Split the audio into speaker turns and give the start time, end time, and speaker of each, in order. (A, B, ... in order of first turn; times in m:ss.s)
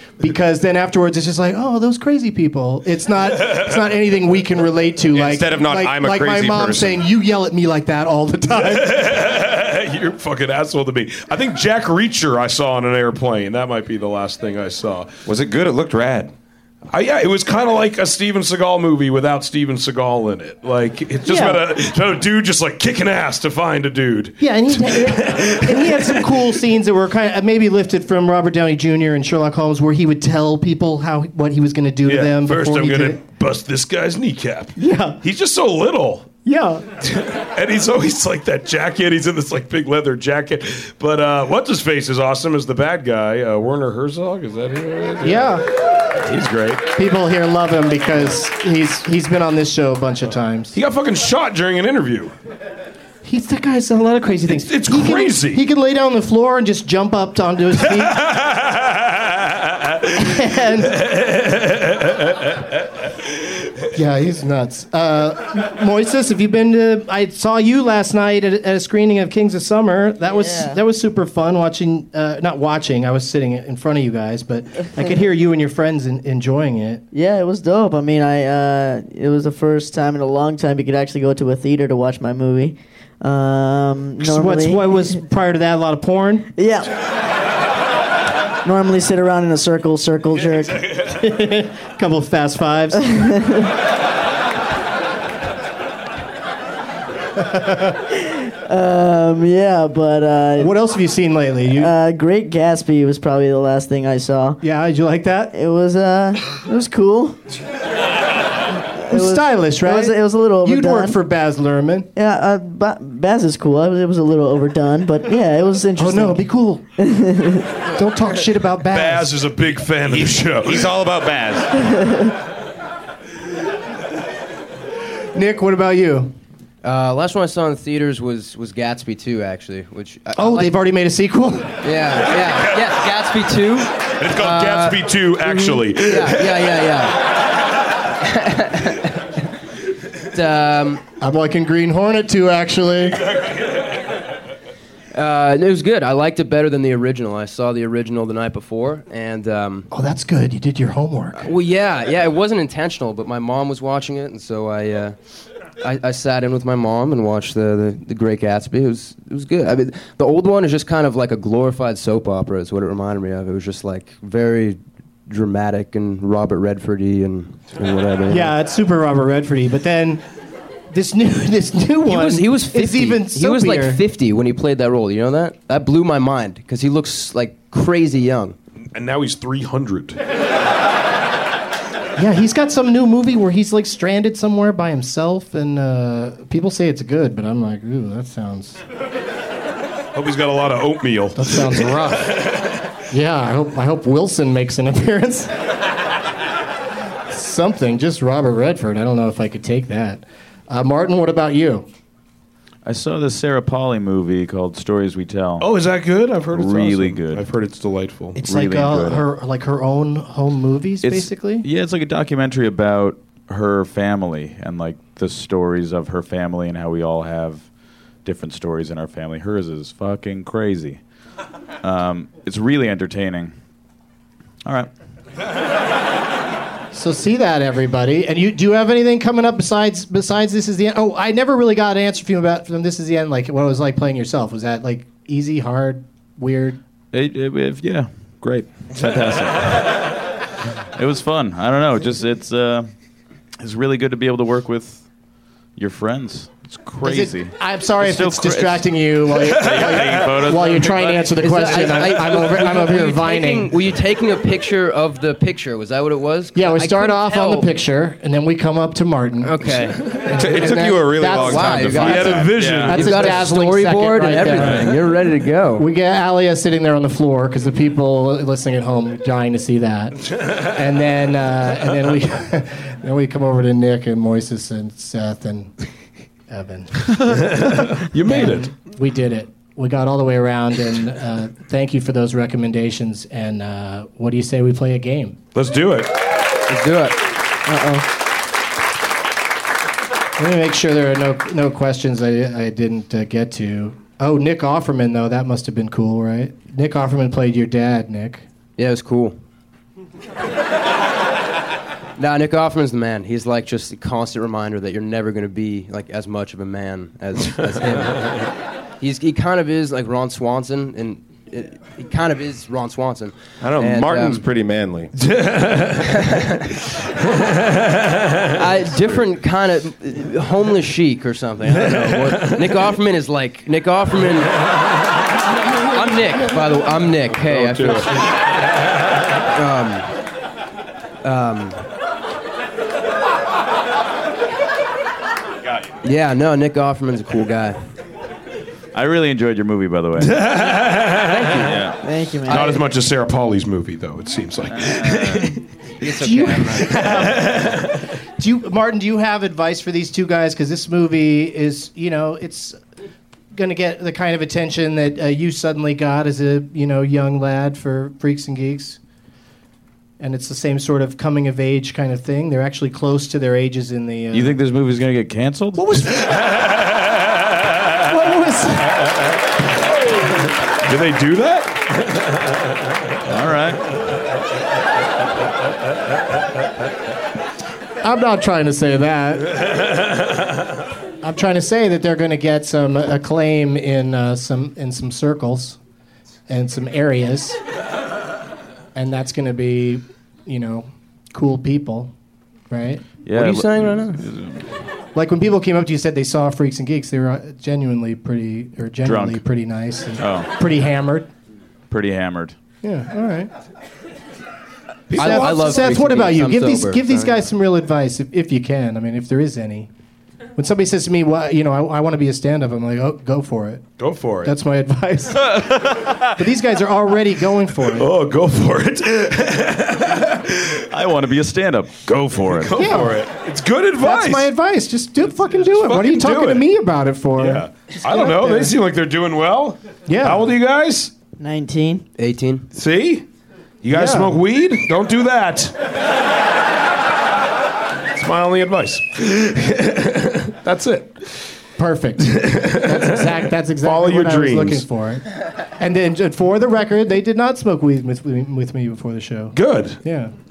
0:00.2-0:09.0 A
0:05.1-0:07.0 B
0:08.6-0:15.1 C
0:15.3-0:16.3 B
0:16.9-0:26.6 C
0:21.3-0:21.6 A
0:24.4-0:33.2 A
0:32.1-0:36.3 C
0:34.8-0:35.2 A
0:36.4-0:36.8 A
0:37.0-0:46.8 C
0:45.2-0:45.6 A
0:47.0-0:50.8 A
0:50.7-0:52.4 C
0:53.2-0:58.2 A
0:54.5-0:55.6 C
0:58.0-1:00.1 C
1:00.2-1:01.0 A
1:01.0-1:02.5 C
1:03.9-1:17.0 A
1:10.4-1:10.8 D
1:17.1-1:25.2 D
1:24.2-1:26.5 A
1:26.6-1:26.9 D
1:28.6-1:30.8 D
1:31.0-1:33.2 A
1:33.1-1:33.7 D
1:37.4-1:37.9 A
1:38.1-1:40.7 D
1:40.6-1:41.9 A
1:41.8-1:44.6 D
1:44.6-1:45.5 A
1:45.5-1:47.4 D
1:48.9-1:51.2 D
1:49.1-1:52.1 A
1:52.2-1:56.4 D
1:56.0-1:56.8 A
1:57.0-1:57.7 D
1:58.0-1:59.3 A
1:58.9-2:00.9 C
2:00.1-2:01.9 B
2:01.9-2:02.2 D
2:05.3-2:06.4 A
2:06.8-2:10.7 E
2:10.4-2:11.9 A
2:11.8-2:17.3 E
2:14.2-2:16.8 C
2:18.2-2:19.4 E
2:20.3-2:21.0 E
2:21.2-2:23.2 A
2:25.1-2:29.9 E
2:29.9-2:31.5 A
2:31.4-2:35.2 E
2:35.8-2:48.5 E
2:48.3-2:50.2 A
2:50.9-2:54.0 A
2:52.1-2:58.6 E
2:58.9-3:00.2 C
3:02.2-3:08.8 A
3:10.2-3:12.6 C
3:11.4-3:12.5 A
3:13.1-3:15.5 A
3:17.3-3:21.9 A
3:22.8-3:25.7 F
3:25.6-3:28.4 C
3:26.5-3:27.5 F
3:28.4-3:31.7 A
3:28.4-3:29.3 F
3:31.0-3:37.7 F
3:38.2-3:41.0 F
3:41.8-3:43.5 F
3:44.6-3:44.9 F
3:46.9-3:56.8 A
3:57.1-4:00.0 F
4:01.0-4:02.9 F
4:03.6-4:05.0 F
4:05.8-4:09.0 F
4:07.0-4:13.8 A
4:09.5-4:10.4 C
4:09.5-4:12.1 F
4:11.4-4:17.7 E
4:16.5-4:25.0 A
4:19.4-4:25.9 E
4:20.3-4:22.5 B
4:21.9-4:23.5 C
4:22.3-4:23.4 F
4:24.4-4:24.9 F
4:25.8-4:35.7 A
4:36.5-4:45.4 A
4:37.3-4:38.7 C
4:45.6-4:46.1 C
4:46.7-4:47.2 E
4:47.7-4:48.0 D
4:50.4-4:58.4 A
4:58.8-4:59.4 E
5:02.2-5:08.5 E
5:09.0-5:14.4 E
5:13.6-5:15.1 B
5:15.2-5:16.3 C
5:16.1-5:16.6 E
5:16.9-5:18.4 C
5:18.6-5:24.6 E
5:21.9-5:22.6 C
5:25.8-5:28.2 E
5:27.4-5:28.2 C
5:29.5-5:30.1 E
5:31.2-5:31.9 E
5:36.0-5:37.8 E
5:39.0-5:40.6 F
5:40.2-5:41.5 C
5:41.3-5:41.8 E
5:41.5-5:42.0 F
5:42.0-5:42.8 D
5:42.5-5:45.6 C
5:44.8-5:45.5 F
5:46.0-5:47.4 E
5:46.2-5:47.8 A
5:46.9-5:48.0 C
5:48.4-5:52.8 A
5:53.5-5:59.0 A
6:00.2-6:04.6 A
6:04.3-6:05.8 F
6:05.8-6:06.3 A
6:08.0-6:09.2 A
6:10.8-6:12.2 C
6:13.3-6:13.8 F
6:18.0-6:19.6 A
6:21.2-6:25.8 A
6:26.5-6:27.6 A
6:29.0-6:32.1 A
6:32.7-6:33.1 A
6:33.2-6:34.7 F
6:33.3-6:34.2 E
6:35.2-6:41.3 A
6:39.0-6:39.4 F
6:40.2-6:40.5 F
6:41.9-6:42.6 F
6:42.8-6:43.5 A
6:45.1-6:47.4 E
6:45.1-6:45.5 C
6:45.2-6:49.9 A
6:50.6-6:53.9 A
6:54.0-6:54.5 C
6:54.4-6:55.7 A
6:55.4-6:56.4 F
6:56.4-6:58.1 A
6:57.9-7:00.8 C
7:00.9-7:02.9 F
7:02.1-7:04.5 C
7:02.8-7:03.2 A
7:04.0-7:08.8 A
7:05.6-7:06.7 C
7:07.4-7:11.1 C
7:10.1-7:10.5 A
7:11.4-7:12.0 D
7:12.2-7:12.7 E
7:12.7-7:13.3 C
7:13.8-7:15.7 C
7:13.9-7:14.4 A
7:18.1-7:21.4 C
7:21.8-7:25.3 A
7:22.2-7:24.8 C
7:25.8-7:30.3 A
7:29.5-7:30.0 C